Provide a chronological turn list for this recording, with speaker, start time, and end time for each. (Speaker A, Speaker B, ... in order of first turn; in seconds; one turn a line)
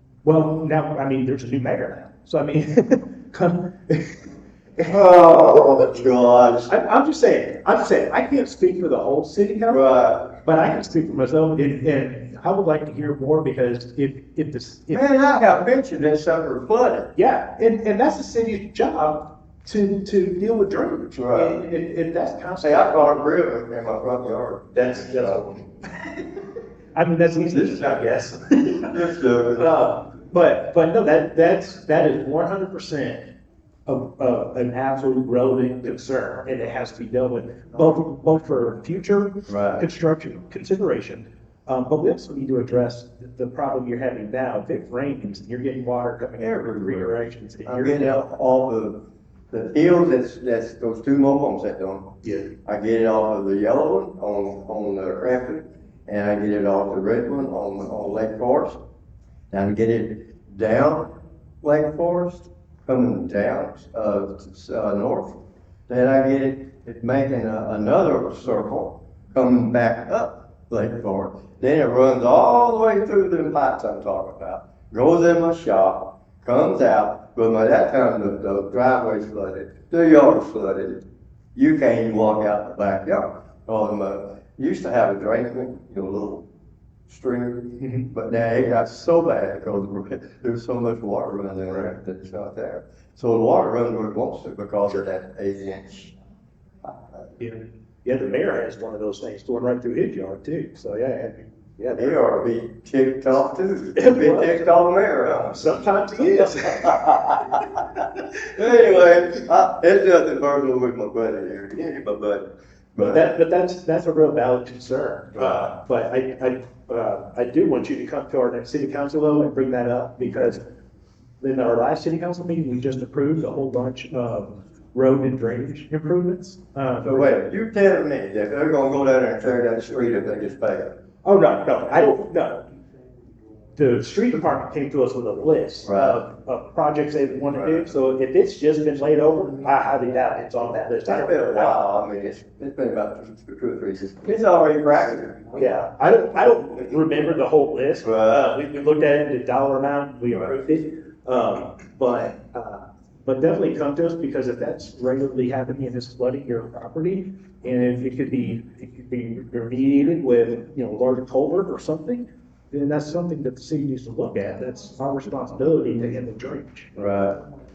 Speaker A: 0.2-4.8
Speaker B: 4.8-6.7
Speaker A: 6.7-15.0
Speaker B: 9.7-10.3
Speaker B: 14.9-17.1
Speaker A: 17.1-23.2
Speaker B: 21.1-21.6
Speaker B: 22.6-25.4
Speaker A: 24.7-26.3
Speaker A: 26.9-29.0
Speaker B: 27.4-28.1
Speaker B: 28.7-29.7
Speaker A: 29.5-33.3
Speaker A: 33.9-48.2
Speaker B: 39.5-39.9
Speaker B: 46.4-58.8
Speaker A: 52.2-52.5
Speaker B: 59.5-86.5
Speaker B: 87.1-96.1
Speaker A: 87.8-88.1
Speaker A: 97.4-102.2
Speaker B: 102.0-107.5
Speaker A: 104.0-104.7
Speaker A: 105.4-107.6
Speaker B: 108.5-113.3
Speaker A: 113.0-120.6
Speaker B: 115.4-115.7
Speaker A: 121.4-127.2
Speaker B: 127.0-131.0
Speaker A: 131.2-132.7
Speaker A: 133.8-141.8
Speaker B: 135.8-136.2
Speaker B: 137.5-137.9
Speaker B: 141.1-145.7
Speaker A: 145.6-166.9
Speaker B: 148.0-148.5
Speaker B: 166.9-167.4